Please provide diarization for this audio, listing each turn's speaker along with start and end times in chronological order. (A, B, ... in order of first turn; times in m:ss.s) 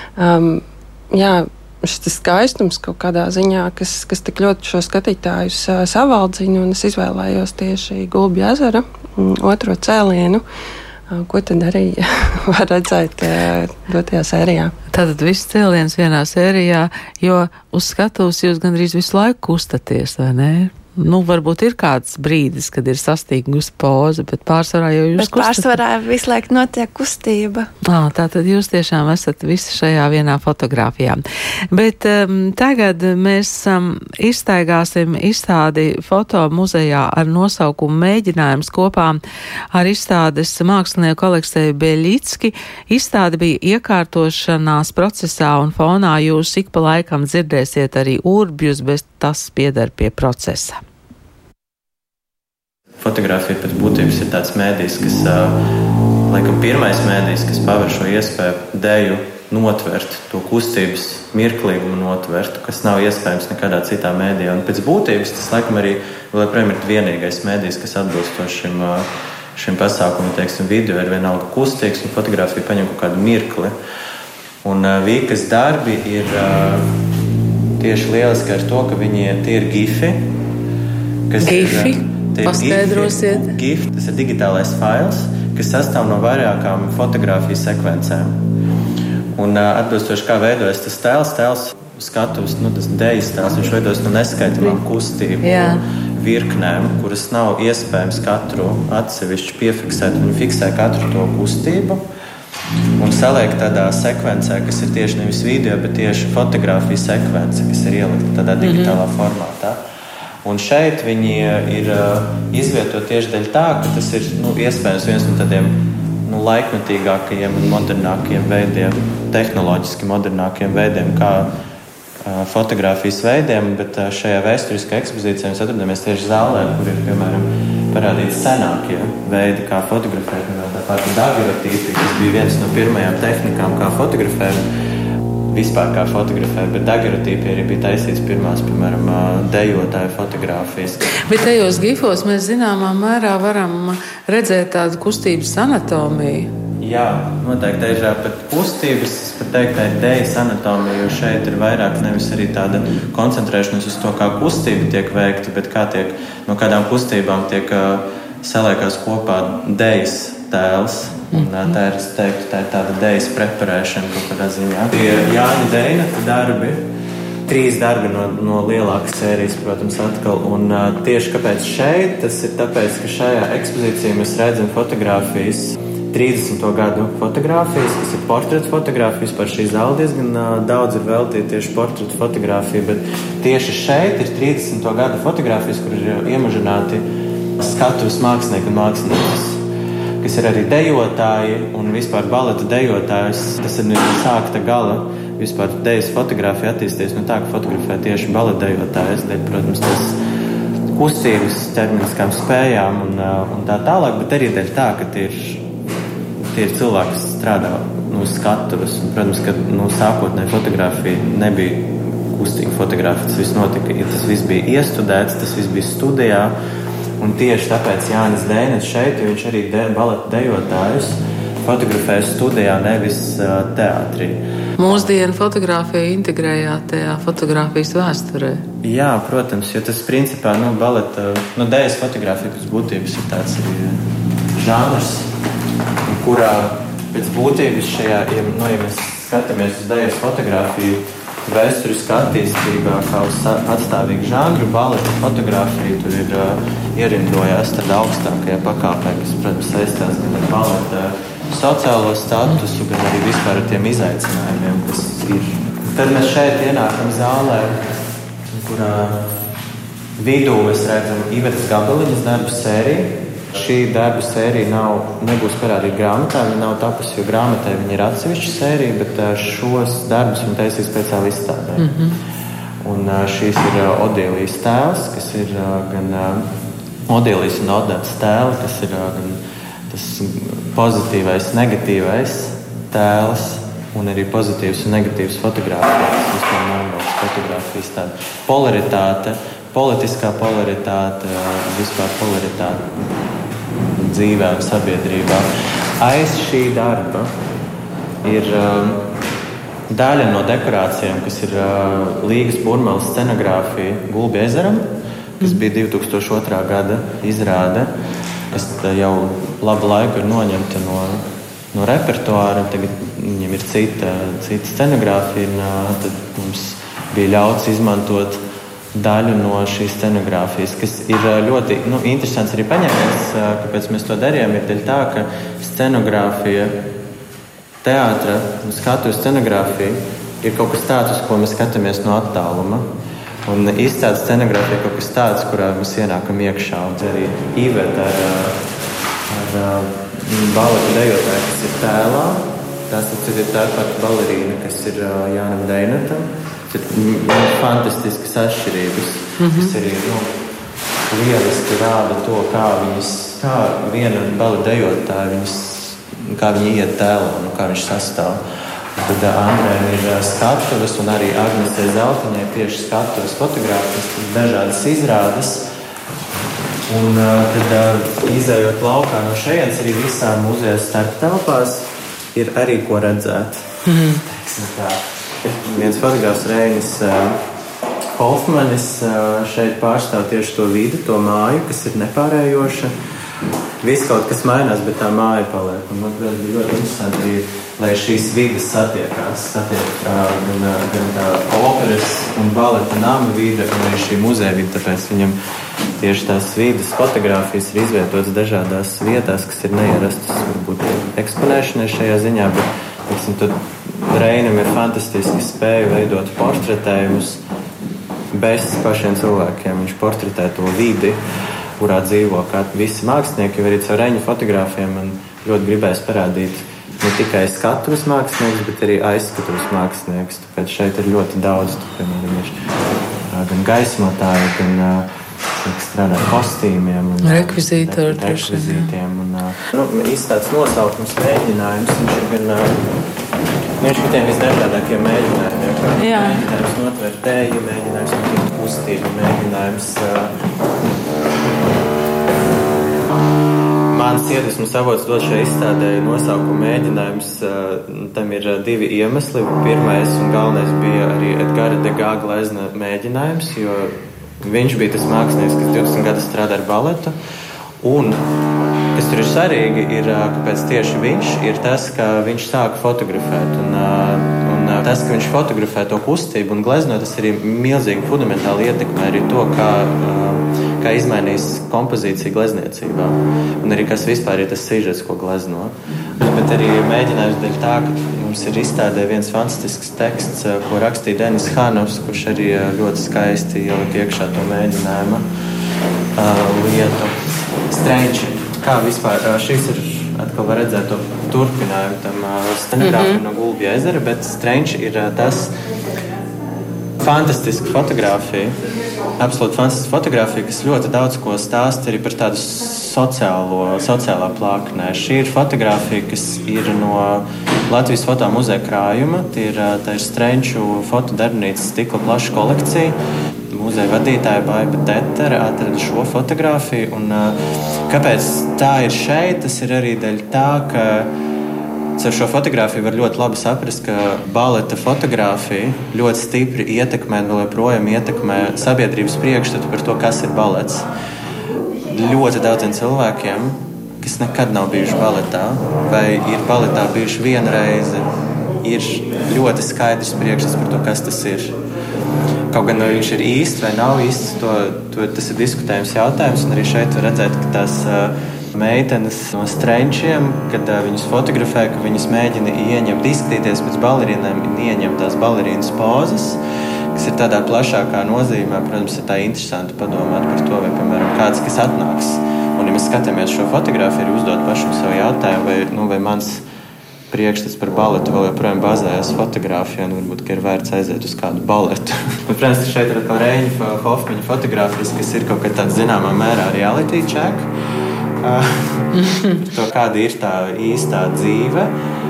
0:00.2-0:10.4 A
0:11.1-0:14.7 A
0:14.9-0:25.8 B
0:25.2-0:27.7 C
0:27.9-0:31.2 B
0:31.7-0:39.2 B
0:39.7-0:50.8 B
0:53.0-0:55.6 D
0:56.3-1:13.7 D
1:14.6-1:16.9 D
1:17.8-1:20.2 D
1:21.3-1:28.4 D
1:21.4-1:23.5 B
1:29.4-1:42.0 D
1:35.4-1:35.8 B
1:43.0-1:49.8 D
1:48.6-1:49.0 B
1:50.4-1:55.7 D
1:56.3-2:01.5 D
2:02.2-2:14.6 D
2:15.5-2:21.0 D
2:21.3-2:26.5 B
2:26.8-2:46.8 D
2:41.3-2:41.7 B
2:47.5-3:07.0 D
3:07.6-3:09.6 D
3:10.2-3:20.2 D
3:20.9-3:25.6 D
3:26.4-3:36.5 D
3:37.2-3:45.1 D
3:44.8-3:48.7 B
3:48.8-3:54.0 D
3:54.6-3:55.3 D
3:56.1-4:19.3 D
4:20.2-4:31.9 D
4:31.8-4:32.2 B
4:32.8-4:36.5 D
4:37.1-4:53.0 D
4:53.9-4:57.3 D
4:58.2-4:59.1 D
4:59.9-5:04.9 D
5:05.4-5:07.9 D
5:08.5-5:11.2 D
5:11.7-5:18.4 D
5:18.9-5:26.7 D
5:27.8-5:32.8 D
5:33.5-5:38.6 D
5:39.3-5:50.4 D
5:49.4-5:49.7 B
5:51.1-5:58.4 D
5:59.0-6:05.6 D
6:06.9-6:17.4 D
6:13.9-6:14.2 B
6:18.2-6:22.9 D
6:23.8-6:35.4 D
6:36.0-6:47.4 D
6:48.3-6:51.2 D
6:51.8-7:02.6 D
7:03.3-7:12.8 D
7:07.2-7:08.9 B
7:13.8-7:20.3 D
7:16.0-7:16.4 B
7:21.4-7:21.7 D
7:23.9-7:37.2 D
7:37.8-7:38.3 D
7:39.0-8:05.2 D
8:06.2-8:07.2 D
8:07.7-8:15.5 D
8:12.8-8:13.2 B
8:17.0-8:18.6 D
8:19.2-8:33.0 D
8:33.5-8:37.4 D
8:37.9-8:41.1 D
8:42.0-8:50.9 D
8:51.8-8:58.1 D
8:58.6-9:01.6 D
9:02.5-9:16.4 D
9:17.0-9:26.4 D
9:27.1-9:37.5 D
9:38.2-9:41.7 D
9:38.9-9:39.4 B